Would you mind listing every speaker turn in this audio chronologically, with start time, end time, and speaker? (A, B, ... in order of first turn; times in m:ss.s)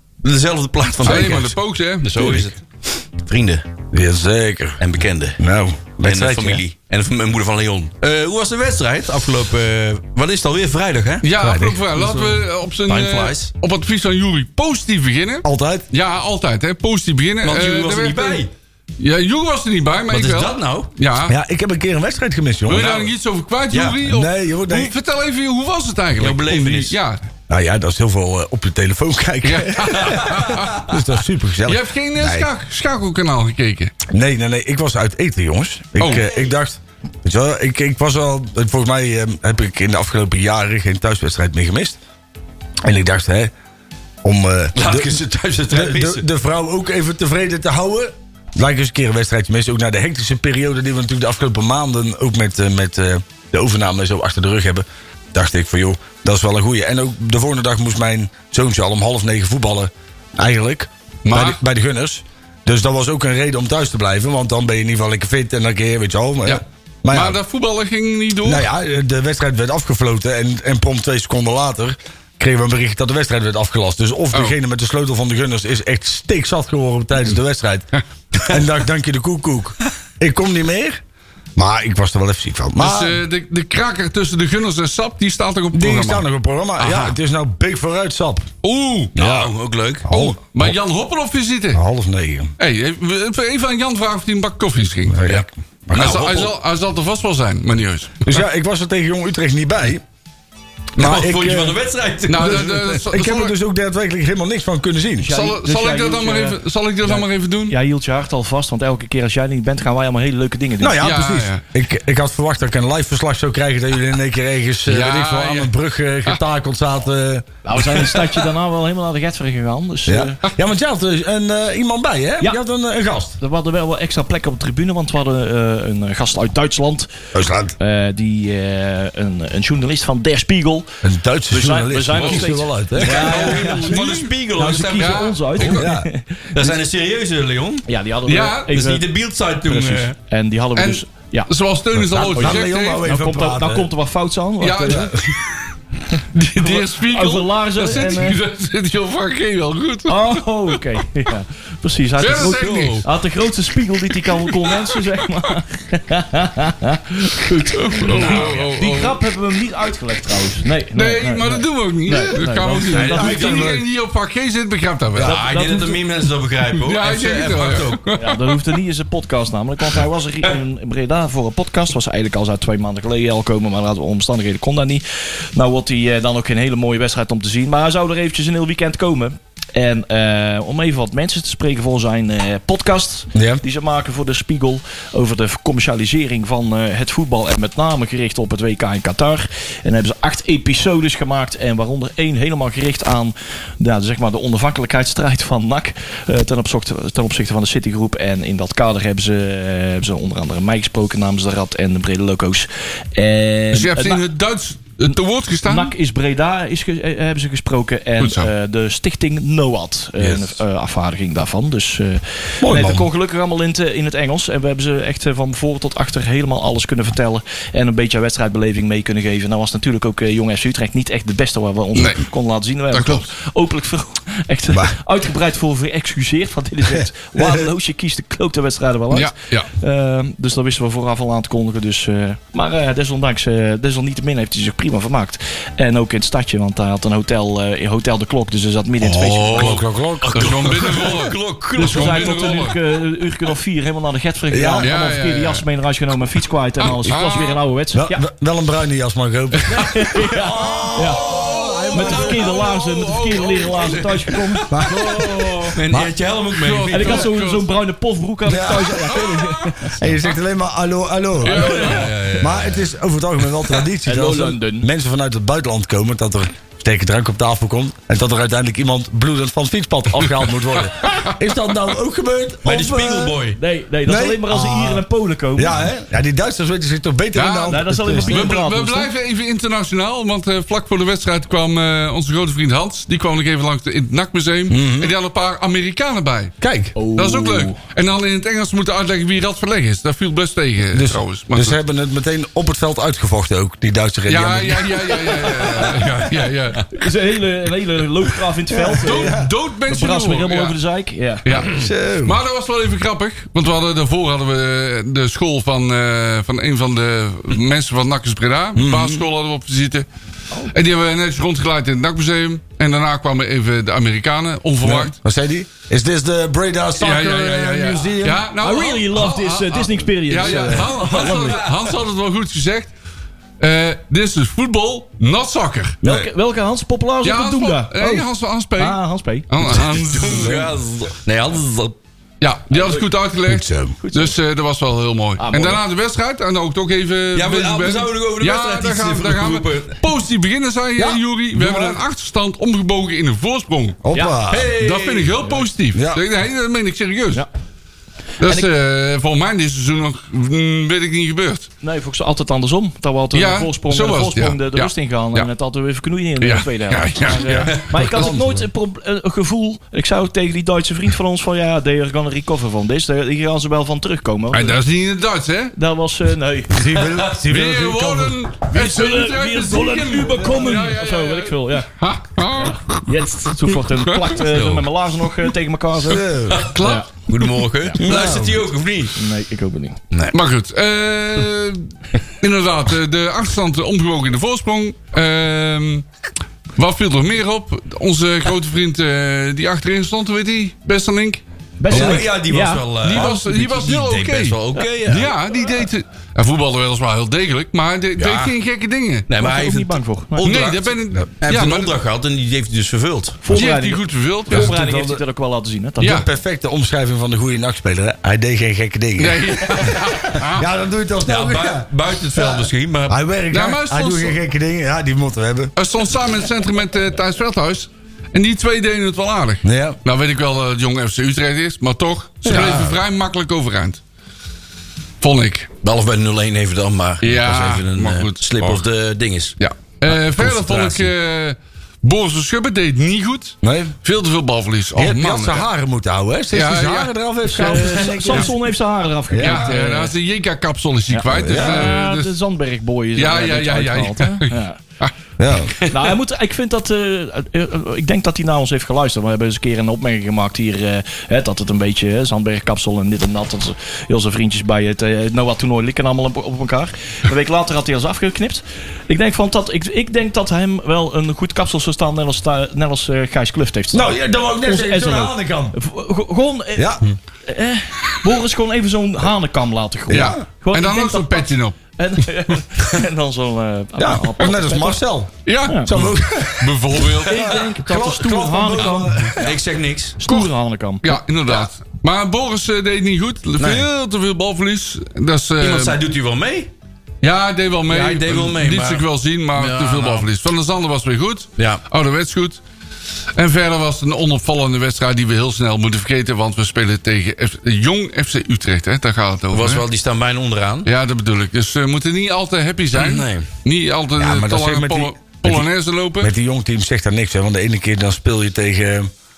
0:00.2-0:01.4 A
0:01.0-0:01.6 B
0:01.0-0:02.4 C
0:02.0-0:03.6 A
0:02.2-0:02.5 B
0:03.9-0:04.8 B
0:04.8-0:05.4 A
0:05.4-0:06.6 B
0:06.0-0:11.3 A
0:11.2-0:18.4 C
0:11.4-0:11.9 B
0:12.0-0:13.5 A
0:15.4-0:15.9 B
0:17.4-0:18.5 A
0:19.0-0:21.4 C
0:20.1-0:20.9 A
0:21.3-0:22.9 B
0:22.7-0:27.2 C
0:22.7-0:23.1 A
0:23.7-0:24.0 A
0:24.0-0:24.9 B
0:26.2-0:27.0 A
0:27.5-0:32.5 B
0:29.4-0:30.9 C
0:30.0-0:30.8 A
0:31.7-0:34.0 C
0:34.1-0:42.0 B
0:36.0-0:36.3 C
0:42.8-0:43.5 B
0:44.2-1:07.4 B
0:44.8-0:46.2 A
1:01.2-1:01.6 C
1:06.5-1:08.7 C
1:08.4-1:21.0 B
1:21.6-1:23.2 B
1:22.8-1:26.2 C
1:25.7-1:28.5 B
1:26.8-1:27.2 C
1:28.6-1:29.2 C
1:29.2-1:29.5 B
1:29.2-1:30.1 A
1:30.0-1:30.8 B
1:30.1-1:31.8 C
1:31.7-1:32.5 B
1:32.6-1:35.2 C
1:35.1-1:36.4 B
1:35.2-1:36.5 A
1:35.9-1:38.3 C
1:38.2-1:40.0 B
1:41.0-1:43.0 A
1:41.0-1:41.8 B
1:42.3-1:43.6 C
1:42.3-1:45.3 B
1:45.2-1:51.0 D
1:45.3-1:47.8 C
1:50.8-1:58.1 B
1:51.0-1:51.6 C
1:54.9-1:55.7 C
1:57.6-2:00.4 D
2:00.1-2:03.4 B
2:03.4-2:07.1 D
2:07.3-2:07.8 B
2:07.8-2:10.9 D
2:11.0-2:13.5 B
2:11.5-2:14.0 D
2:12.1-2:12.5 C
2:13.0-2:15.7 A
2:13.1-2:14.3 C
2:14.5-2:16.8 D
2:14.9-2:15.8 C
2:15.6-2:16.1 B
2:16.5-2:17.8 A
2:17.8-2:19.0 D
2:18.3-2:18.7 C
2:18.7-2:20.2 A
2:19.7-2:21.5 D
2:20.8-2:23.0 C
2:21.9-2:23.9 B
2:22.2-2:25.1 D
2:24.6-2:25.4 C
2:24.9-2:25.2 B
2:26.3-2:30.3 C
2:26.6-2:28.4 D
2:30.1-2:43.7 D
2:32.2-2:33.1 C
2:32.6-2:32.9 A
2:34.5-2:34.9 C
2:37.5-2:39.2 C
2:38.1-2:38.7 A
2:40.9-2:45.4 C
2:42.9-2:43.6 A
2:42.9-2:43.8 B
2:45.2-2:46.0 D
2:45.2-2:48.0 A
2:46.7-2:48.6 C
2:48.2-2:55.0 D
2:55.6-3:24.2 D
3:03.4-3:03.6 B
3:23.7-3:25.9 C
3:25.6-3:59.7 D
3:28.2-3:28.5 C
3:30.2-3:30.6 B
3:32.6-3:33.1 B
3:42.0-3:42.2 C
3:42.9-3:43.3 C
3:44.7-3:45.0 B
3:46.8-3:47.7 B
3:49.1-3:49.7 C
3:59.0-4:02.8 C
3:59.5-4:00.9 B
3:59.6-4:02.5 A
4:01.8-4:08.2 D
4:04.5-4:04.9 B
4:04.8-4:05.6 C
4:06.8-4:07.6 C
4:07.9-4:12.6 B
4:09.7-4:11.2 D
4:10.8-4:15.8 C
4:11.9-4:14.7 D
4:14.7-4:16.1 B
4:15.8-4:17.3 A
4:16.5-4:17.7 C
4:16.9-4:19.9 D
4:18.5-4:19.3 B
4:19.0-4:20.3 C
4:20.0-4:33.4 B
4:21.4-4:22.1 D
4:21.4-4:22.4 C
4:21.8-4:22.9 A
4:24.0-4:24.9 D
4:30.2-4:31.4 C
4:32.6-4:33.6 A
4:33.5-4:35.9 D
4:34.1-4:35.0 B
4:35.6-4:38.5 B
4:37.3-4:46.6 C
4:37.7-4:39.1 D
4:44.7-4:45.2 B
4:46.6-4:47.0 B
4:47.0-4:47.8 D
4:47.1-4:51.8 C
4:50.9-4:56.2 B
4:54.3-4:56.9 C
4:56.9-5:01.4 D
4:58.7-4:59.5 B
4:59.0-5:00.8 C
5:01.4-5:10.1 C
5:01.7-5:02.4 B
5:08.8-5:09.2 B
5:10.7-5:15.1 C
5:14.8-5:18.4 B
5:17.0-5:22.9 C
5:18.6-5:21.6 D
5:20.4-5:21.9 A
5:23.6-5:26.0 C
5:26.0-5:26.3 B
5:26.0-5:29.5 D
5:27.2-5:30.7 C
5:29.6-5:32.0 A
5:30.3-5:30.7 B
5:32.4-5:44.0 C
5:32.7-5:33.0 D
5:33.5-5:34.0 B
5:34.0-5:34.4 D
5:35.4-5:35.8 D
5:37.3-5:40.0 A
5:41.0-5:42.0 B
5:44.0-5:44.7 B
5:44.1-5:44.4 D
5:44.5-5:45.5 A
5:44.8-5:47.4 C
5:45.9-5:46.2 B
5:48.4-5:51.7 C
5:48.4-5:48.7 D
5:51.8-6:04.8 D
5:53.3-5:55.5 C
5:56.4-5:57.8 C
5:57.5-5:58.6 B
6:04.5-6:05.7 C
6:05.8-6:07.0 D
6:06.7-6:08.4 B
6:07.5-6:13.0 C
6:08.7-6:11.9 D
6:12.5-6:16.3 D
6:13.7-6:14.4 C
6:14.5-6:14.9 A
6:16.1-6:16.7 B
6:16.5-6:19.2 A
6:16.7-6:17.5 C
6:16.8-6:17.1 D
6:17.8-6:18.5 D
6:18.0-6:18.6 B
6:19.2-6:20.0 D
6:20.1-6:20.4 A
6:20.3-6:21.8 C
6:22.4-6:26.0 C
6:26.8-6:31.4 C
6:31.8-6:33.3 D
6:31.9-6:35.3 A
6:31.9-6:32.2 B
6:33.0-6:39.3 C
6:38.2-6:38.5 A
6:39.3-6:43.5 A
6:39.4-6:40.6 D
6:40.4-6:42.0 C
6:43.4-6:46.2 D
6:43.5-6:44.7 C
6:44.5-6:45.2 B
6:46.0-6:46.3 C
6:46.0-6:55.7 B
6:49.2-6:50.7 C
6:51.3-6:53.2 A
6:53.5-6:54.4 C
6:55.8-7:04.0 C
6:59.6-7:00.0 B
7:02.4-7:02.9 B
7:02.4-7:03.0 A
7:05.2-7:05.7 C
7:05.8-7:09.6 A
7:07.2-7:08.8 C
7:09.6-7:15.7 C
7:10.1-7:11.1 A
7:13.6-7:14.0 B
7:15.0-7:18.6 B
7:16.5-7:17.1 C
7:17.5-7:20.1 D
7:17.6-7:18.5 C
7:19.3-7:19.7 B
7:19.4-7:22.3 C
7:21.1-7:24.8 D
7:21.3-7:21.9 B
7:23.2-7:25.1 C
7:25.4-7:25.8 B
7:25.9-7:55.0 D
7:43.9-7:45.8 B
7:46.8-7:47.0 B
7:50.1-7:50.4 B
7:50.1-7:51.8 C
7:54.0-7:55.3 B
7:55.4-7:57.6 C
7:55.7-7:55.9 D
7:55.9-7:59.5 B
7:57.3-7:59.6 D
7:59.4-8:00.2 A
8:00.2-8:01.2 D
8:01.0-8:06.0 C
8:03.6-8:03.8 A
8:05.6-8:06.7 A
8:07.2-8:12.6 C
8:07.9-8:09.0 A
8:09.6-8:10.3 A
8:13.4-8:19.8 C
8:19.5-8:20.9 A
8:20.8-8:26.3 C
8:22.9-8:23.5 A
8:24.2-8:25.7 B
8:26.2-8:29.1 B